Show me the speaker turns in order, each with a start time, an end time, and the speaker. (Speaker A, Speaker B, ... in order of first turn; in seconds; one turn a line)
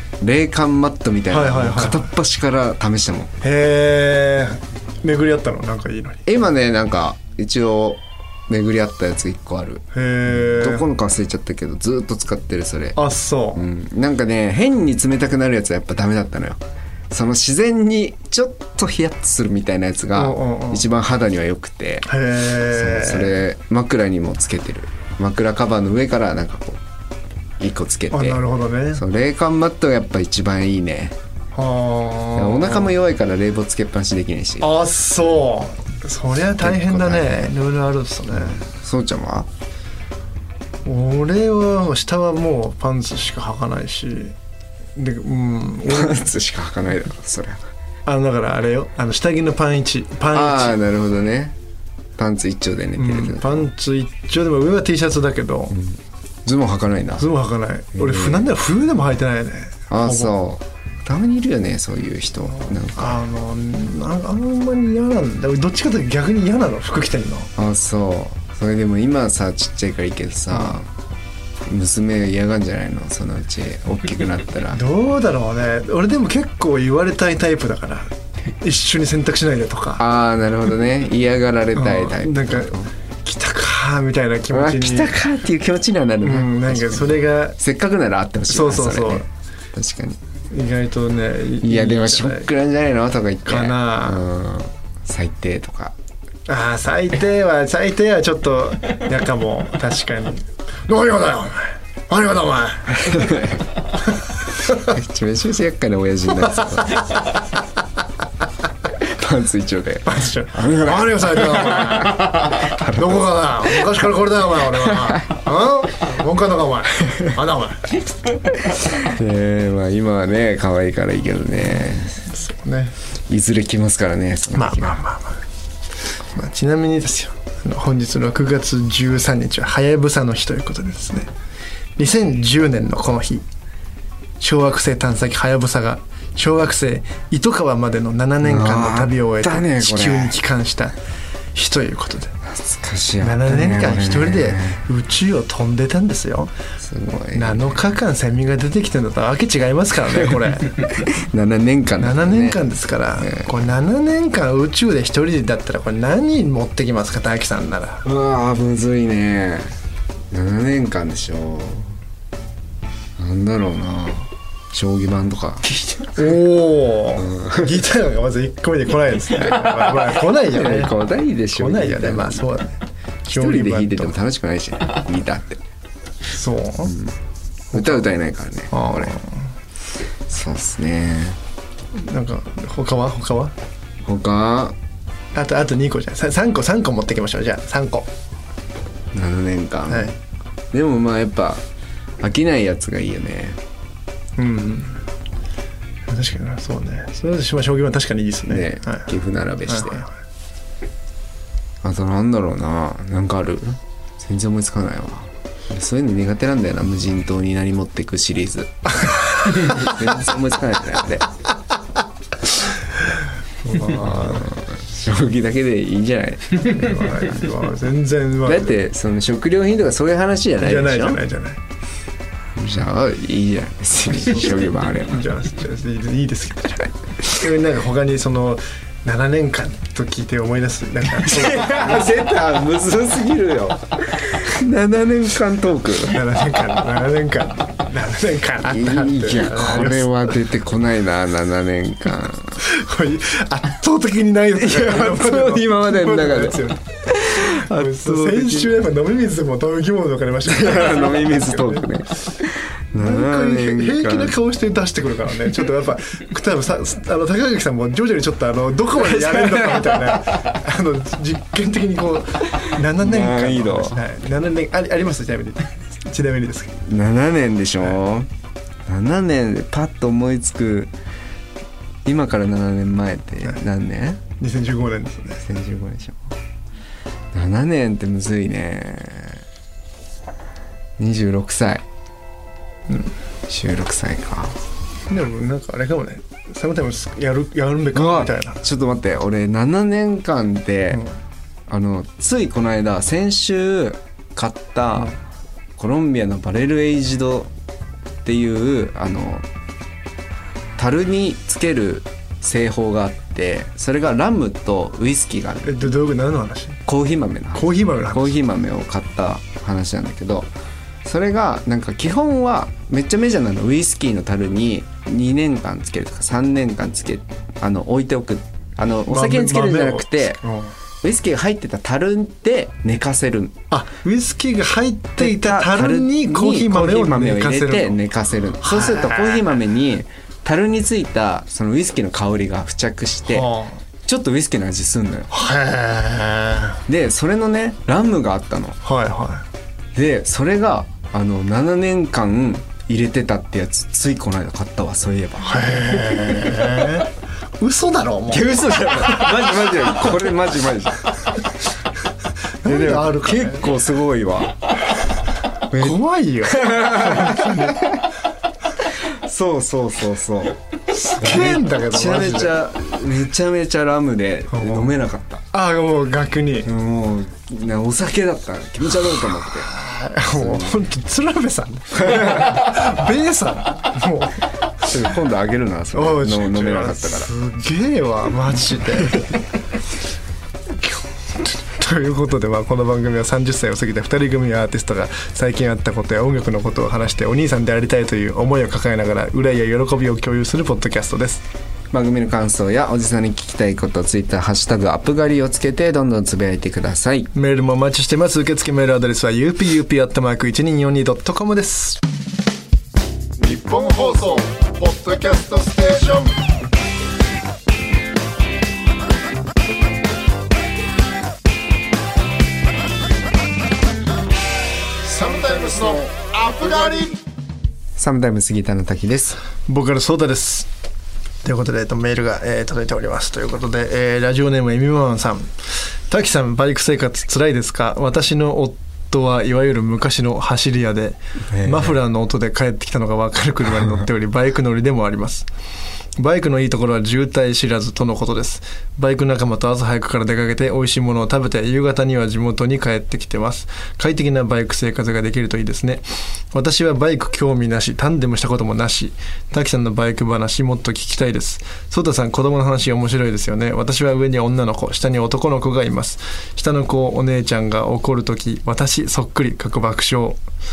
Speaker A: 0.2-3.3
Speaker B: 1.3-2.1
Speaker B: 3.4-6.3
Speaker A: 6.2-13.0
Speaker B: 9.9-10.9
Speaker B: 12.9-13.6
Speaker A: 13.5-22.1
Speaker B: 20.1-20.8
Speaker B: 22.0-23.4
Speaker A: 22.6-26.8
Speaker A: 27.6-31.2
Speaker B: 28.1-29.0
Speaker B: 31.5-32.9
Speaker A: 32.3-34.7
Speaker B: 34.6-38.6
Speaker A: 36.4-37.4
Speaker A: 38.3-39.5
Speaker B: 40.8-44.3
Speaker B: 45.0-46.3
Speaker A: 45.9-47.6
Speaker B: 48.0-50.8
Speaker A: 50.3-51.5
Speaker A: 52.2-53.7
Speaker B: 53.0-55.8
Speaker A: 55.7-57.3
Speaker B: 57.2-60.3
Speaker A: 57.9-58.5
Speaker A: 59.9-63.2
Speaker B: 62.4-67.5
Speaker A: 67.5-70.9
Speaker A: 71.7-74.8
Speaker B: 74.7-80.0
Speaker A: 80.0-82.9
Speaker B: 81.7-85.1
Speaker A: 84.5-90.2
Speaker B: 86.2-87.6
Speaker B: 88.5-89.2
Speaker B: 90.5-92.5
Speaker A: 91.6-96.0
Speaker B: 93.5-94.3
Speaker B: 96.5-103.4
Speaker A: 102.9-103.7
Speaker A: 104.7-107.0
Speaker A: 109.0-113.2
Speaker B: 110.0-118.0
Speaker A: 118.9-122.3
Speaker B: 122.3-122.9
Speaker A: 123.3-125.0
Speaker B: 124.5-125.4
Speaker B: 126.3-131.3
Speaker B: 132.0-133.4
Speaker B: 134.4-140.9
Speaker A: 138.4-140.3
Speaker B: 141.5-142.3
Speaker A: 142.4-144.8
Speaker B: 143.2-146.5
Speaker A: 146.8-147.8
Speaker B: 147.3-150.9
Speaker A: 150.8-152.6
Speaker B: 152.0-158.0
Speaker A: 153.2-153.5
Speaker A: 158.0-159.7
Speaker A: 160.3-161.9
Speaker A: 163.2-166.1
Speaker B: 166.1-170.9
Speaker A: 167.2-167.7
Speaker A: 170.3-172.6
Speaker B: 171.5-174.2
Speaker A: 173.3-175.6
Speaker B: 176.3-177.0
Speaker A: 176.9-177.1
Speaker B: 177.7-178.0
Speaker A: 177.7-179.2
Speaker B: 178.7-179.4
Speaker A: 180.3-181.4
Speaker B: 181.9-183.5
Speaker A: 184.0-184.8
Speaker B: 185.3-188.1
Speaker A: 189.1-190.2
Speaker B: 189.9-190.1
Speaker A: 190.7-191.6
Speaker A: 192.2-193.6
Speaker B: 194.4-195.0
Speaker B: 196.1-199.1
Speaker A: 198.5-200.0
Speaker B: 199.7-200.1
Speaker A: 201.8-211.3
Speaker B: 213.6-214.5
Speaker A: 213.8-217.1
Speaker B: 216.7-218.8
Speaker A: 218.4-221.2
Speaker B: 220.6-221.6
Speaker A: 222.6-225.2
Speaker B: 225.1-232.0
Speaker A: 231.2-236.2
Speaker B: 236.1-240.2
Speaker A: 238.6-242.6
Speaker B: 242.6-251.9
Speaker A: 244.6-248.7
Speaker A: 250.4-254.3
Speaker B: 252.9-266.8
Speaker A: 259.1-260.1
Speaker A: 263.0-264.0
Speaker A: 266.8-268.3
Speaker A: 268.9-270.9
Speaker A: 272.0-274.2
Speaker B: 274.4-275.4
Speaker A: 275.4-276.3
Speaker A: 277.3-279.4
Speaker A: 281.0-281.8
Speaker A: 283.5-284.6
Speaker B: 285.1-288.6
Speaker A: 287.9-291.0
Speaker A: 291.7-295.1
Speaker A: 295.8-297.5
Speaker A: 298.2-299.4
Speaker A: 300.8-305.9
Speaker B: 305.6-306.8
Speaker A: 306.9-310.5
Speaker B: 307.5-308.3
Speaker A: 311.0-320.4
Speaker B: 319.1-320.7
Speaker A: 321.0-323.6
Speaker B: 323.7-328.0
Speaker A: 325.2-333.5
Speaker B: 328.6-329.5
Speaker B: 333.3-333.8
Speaker A: 334.0-335.3
Speaker B: 335.3-336.8
Speaker A: 336.9-338.8
Speaker B: 338.8-339.4
Speaker A: 339.9-346.8
Speaker B: 345.4-349.4
Speaker A: 348.3-351.1
Speaker B: 352.6-353.7
Speaker A: 352.6-354.6
Speaker A: 355.7-358.0
Speaker B: 355.7-357.9
Speaker A: 358.8-360.6
Speaker B: 360.9-362.5
Speaker A: 361.1-365.4
Speaker B: 364.5-364.9
Speaker B: 365.5-366.7
Speaker A: 366.6-369.7
Speaker B: 369.5-374.9
Speaker A: 370.3-370.7
Speaker A: 372.1-372.4
Speaker A: 374.8-377.3
Speaker B: 375.9-379.4
Speaker B: 380.8-391.4
Speaker A: 391.9-397.3
Speaker B: 397.3-402.0
Speaker C: 403.4-406.4
Speaker C: 415.0-417.2
Speaker A: 418.0-419.4
Speaker B: 419.7-420.7
Speaker B: 421.4-425.5
Speaker B: 426.1-435.5
Speaker A: 431.5-431.9
Speaker B: 436.2-460.4